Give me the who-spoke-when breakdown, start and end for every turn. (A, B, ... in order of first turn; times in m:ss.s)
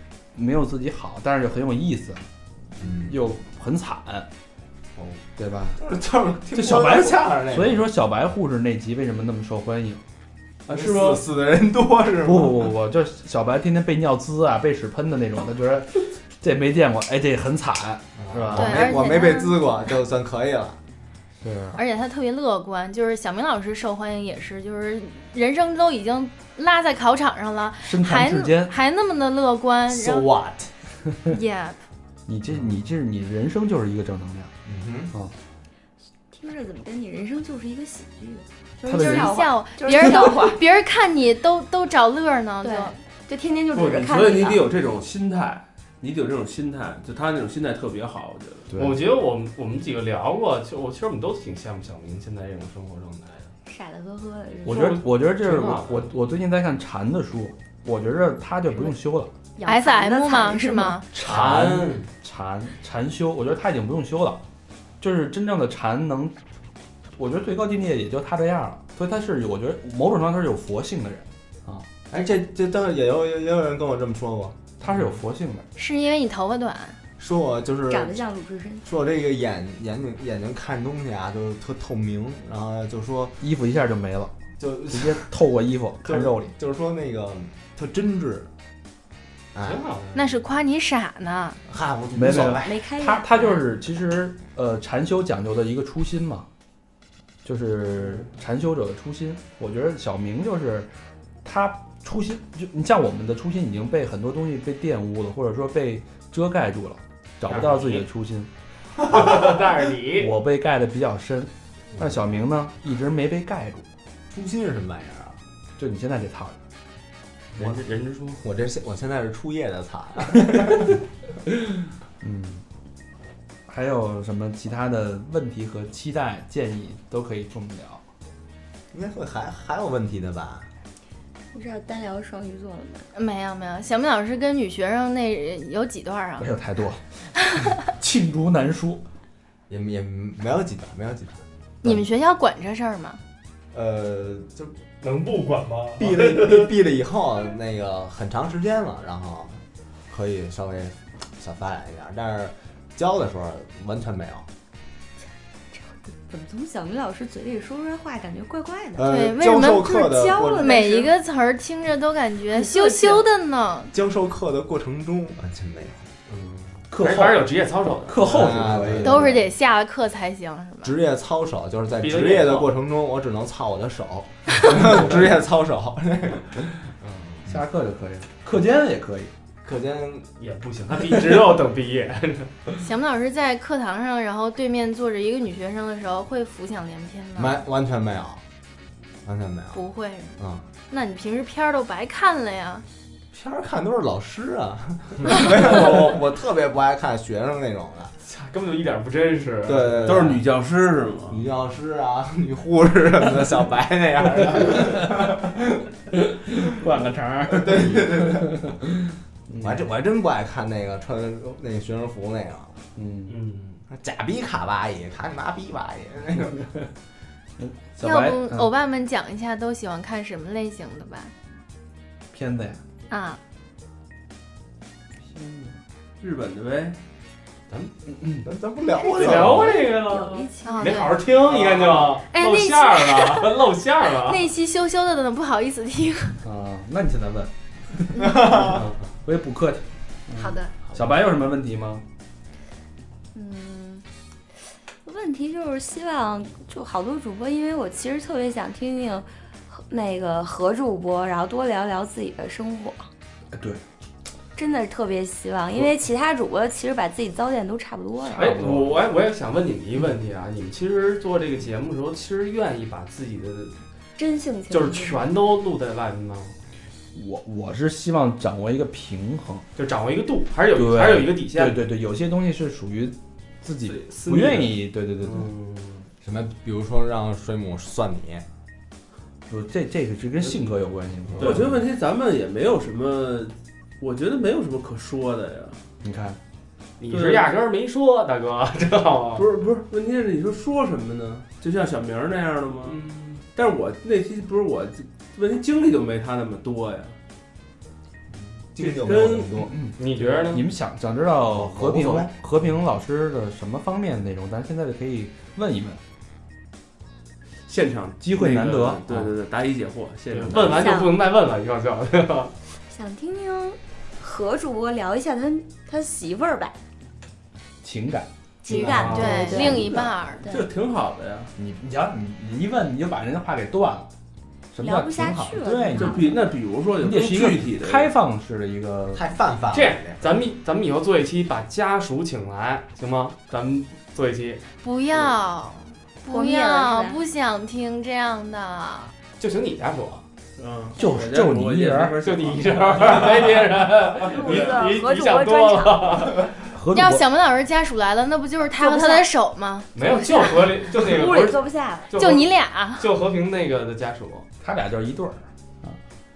0:00.3-0:02.2 A
0:02.8-0:03.2 B
0:02.8-0:04.3 A
0:05.4-0:05.8 A
0:05.8-0:07.8 B
0:06.5-0:10.0 A
0:10.7-0:11.2 C
0:10.7-0:12.7 B
0:12.2-0:19.2 A
0:18.2-0:20.8 B
0:18.5-0:19.6 D
0:21.4-0:21.8 A
0:21.8-0:30.2 D
0:27.8-0:28.7 A
0:29.9-0:30.7 B
0:31.3-0:31.8 D
0:32.3-0:34.5 A
0:34.6-0:35.1 B
0:36.3-0:40.6 E
0:38.8-0:39.3 A
0:39.0-0:42.9 D
0:42.6-0:44.6 E
0:43.7-0:48.7 C
0:48.7-0:49.0 A
0:48.8-0:53.5 F
0:53.6-0:55.0 E
0:54.6-0:56.1 F
0:54.6-0:59.3 A
0:59.6-1:01.0 E
0:59.6-1:01.0 D
1:01.1-1:04.4 A
1:01.2-1:02.1 F
1:05.0-1:06.4 A
1:07.2-1:11.9 A
1:12.1-1:15.0 B
1:14.8-1:15.7 A
1:15.8-1:17.0 D
1:17.2-1:18.2 B
1:17.9-1:18.9 E
1:18.8-1:23.4 B
1:23.4-1:24.3 A
1:24.6-1:25.3 B
1:24.9-1:26.5 A
1:26.0-1:28.5 B
1:29.5-1:29.8 B
1:29.6-1:30.3 F
1:30.1-1:31.6 D
1:31.6-1:32.8 B
1:32.1-1:36.5 A
1:32.6-1:33.6 E
1:37.4-1:40.9 A
1:41.4-1:48.5 A
1:47.4-1:48.1 F
1:49.0-1:50.3 F
1:50.2-1:53.9 A
1:54.3-1:55.4 B
1:55.8-1:56.6 A
1:57.5-1:58.4 F
1:58.4-2:01.0 B
2:01.5-2:02.6 A
2:03.7-2:08.0 A
2:08.9-2:10.7 B
2:11.5-2:13.1 E
2:13.1-2:16.5 D
2:16.4-2:17.0 A
2:17.5-2:19.0 A
2:19.7-2:22.0 B
2:21.8-2:23.2 D
2:23.7-2:24.7 B
2:25.0-2:26.7 F
2:26.0-2:34.5 B
2:35.7-2:39.0 E
2:39.0-2:40.7 B
2:39.0-2:43.9 D
2:39.9-2:41.1 E
2:42.5-2:43.2 E
2:43.9-2:46.1 B
2:46.3-2:49.0 F
2:46.9-2:47.5 A
2:48.0-2:49.4 A
2:48.2-2:49.4 B
2:49.0-2:50.9 D
2:50.8-2:56.7 B
2:52.0-2:52.7 F
2:57.0-2:57.4 F
2:57.4-2:59.3 A
2:59.6-3:00.3 B
3:00.3-3:02.7 F
3:02.8-3:07.6 D
3:07.4-3:08.4 B
3:09.2-3:09.8 B
3:09.7-3:12.8 D
3:10.4-3:10.6 B
3:13.3-3:18.1 B
3:18.2-3:20.2 F
3:19.6-3:20.4 B
3:20.0-3:21.4 C
3:21.3-3:25.8 B
3:24.6-3:24.9 A
3:26.1-3:29.9 A
3:27.5-3:28.7 B
3:29.6-3:32.7 B
3:33.0-3:33.4 A
3:33.2-3:33.8 F
3:33.9-3:36.7 B
3:37.6-3:38.7 A
3:38.0-3:41.3 D
3:42.3-3:42.8 A
3:43.1-3:43.4 D
3:45.2-3:45.8 A
3:46.2-3:47.0 C
3:48.1-3:48.4 A
3:48.4-3:49.8 B
3:49.0-3:51.2 E
3:49.1-3:54.5 F
3:50.6-3:51.2 D
3:51.5-3:52.0 B
3:52.3-3:53.6 D
3:54.2-3:56.4 D
3:56.4-4:02.0 A
3:58.3-3:58.8 B
3:58.6-3:59.1 F
4:00.3-4:00.7 D
4:03.3-4:04.0 E
4:05.0-4:13.1 E
4:13.5-4:13.8 A
4:14.5-4:18.6 E
4:18.3-4:23.8 F
4:18.3-4:19.0 A
4:24.2-4:25.3 E
4:24.7-4:26.5 F
4:27.1-4:29.6 A
4:29.8-4:31.8 F
4:30.7-4:35.5 A
4:33.9-4:36.1 F
4:36.2-4:38.4 B
4:39.5-4:41.8 A
4:41.4-4:45.8 C
4:46.0-4:46.4 A
4:47.0-4:49.5 F
4:47.1-4:47.5 C
4:49.3-4:53.0 C
4:52.8-4:53.4 F
4:53.5-4:57.2 C
4:58.7-4:59.8 B
4:58.8-4:59.6 C
4:59.6-5:06.0 A
5:00.0-5:00.7 F
5:01.4-5:02.3 B
5:07.7-5:11.0 C
5:08.2-5:09.3 A
5:10.3-5:12.5 F
5:10.6-5:11.2 E
5:12.9-5:16.7 E
5:17.8-5:18.3 A
5:18.6-5:19.9 E
5:18.7-5:19.4 B
5:18.8-5:19.6 F
5:18.9-5:21.5 C
5:19.1-5:20.4 D
5:20.4-5:20.7 E
5:21.6-5:24.1 A
5:24.7-5:26.4 A
5:24.8-5:26.3 E
5:25.9-5:28.1 C
5:27.0-5:29.2 A
5:29.1-5:30.2 B
5:29.7-5:34.6 F
5:34.8-5:39.1 D
5:36.2-5:37.2 E
5:39.4-5:40.2 F
5:40.6-5:43.8 C
5:40.9-5:42.2 A
5:42.2-5:46.6 F
5:44.2-5:46.3 E
5:44.4-5:44.8 C
5:46.7-5:47.2 A
5:46.9-5:49.9 D
5:48.6-5:49.3 E
5:49.9-5:54.5 F
5:50.0-5:52.1 E
5:52.1-5:53.1 D
5:54.6-5:56.0 A